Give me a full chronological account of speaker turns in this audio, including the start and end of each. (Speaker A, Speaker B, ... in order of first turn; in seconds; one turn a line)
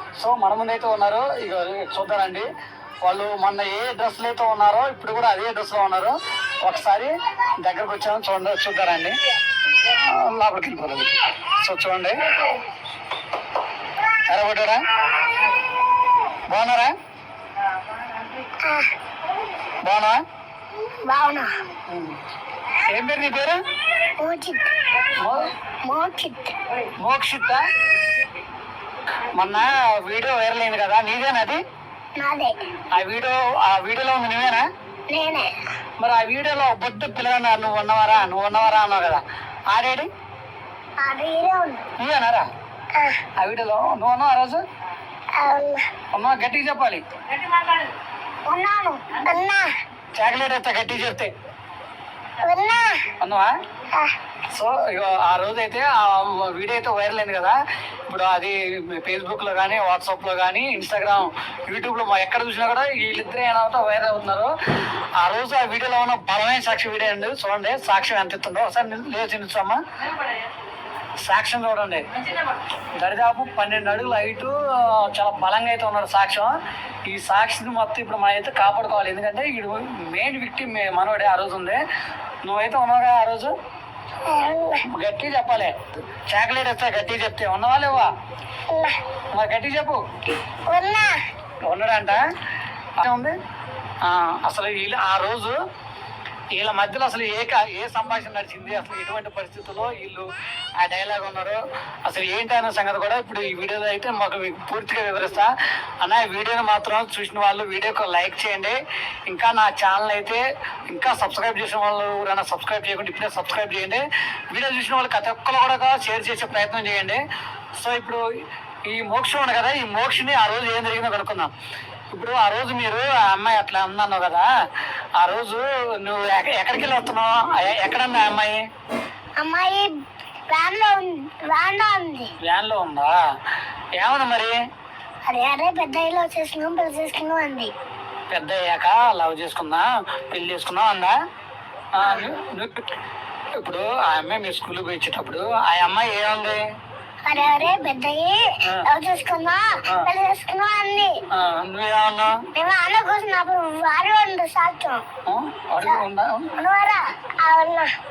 Speaker A: 0.2-2.5
Speaker A: 3.0-9.1
Speaker A: 9.7-12.2
Speaker A: 14.3-14.8
Speaker A: 16.5-16.9
Speaker B: 18.6-18.9
Speaker A: 19.8-20.2
Speaker B: 21.1-21.5
Speaker A: 21.9-22.1
Speaker A: 22.9-23.6
Speaker B: 24.2-24.7
Speaker A: 25.1-25.5
Speaker B: 25.8-26.5
Speaker A: 27.0-27.6
Speaker A: 29.3-31.6
Speaker B: 32.2-32.6
Speaker A: 32.9-34.6
Speaker B: 35.1-35.5
Speaker A: 36.0-40.1
Speaker B: 41.0-41.8
Speaker A: 42.0-42.5
Speaker B: 42.9-43.2
Speaker A: 43.4-44.6
Speaker B: 45.4-45.8
Speaker A: 46.1-47.0
Speaker B: 48.5-49.7
Speaker A: 50.1-51.3
Speaker B: 52.4-53.1
Speaker A: 53.2-53.5
Speaker A: 54.5-57.5
Speaker A: 58.1-64.5
Speaker A: 65.2-69.8
Speaker A: 71.2-72.0
Speaker A: 72.9-76.5
Speaker A: 77.1-81.8
Speaker A: 82.4-83.5
Speaker B: 84.2-84.8
Speaker A: 84.9-88.1
Speaker B: 88.7-89.0
Speaker A: 89.3-90.0
Speaker B: 90.7-91.1
Speaker A: 91.6-92.2
Speaker A: 93.0-93.3
Speaker A: 94.0-95.5
Speaker A: 96.5-108.8
Speaker A: 109.3-117.2
Speaker A: 117.8-118.2
Speaker A: 118.9-121.5
Speaker A: 122.1-124.5
Speaker A: 125.2-128.6
Speaker B: 129.4-129.9
Speaker B: 130.5-132.3
Speaker A: 132.4-133.2
Speaker A: 134.0-134.6
Speaker B: 135.3-137.7
Speaker A: 138.3-141.1
Speaker A: 141.9-142.8
Speaker A: 143.6-146.6
Speaker B: 147.2-151.1
Speaker A: 151.3-152.4
Speaker B: 152.5-155.0
Speaker A: 155.3-156.5
Speaker B: 156.6-157.9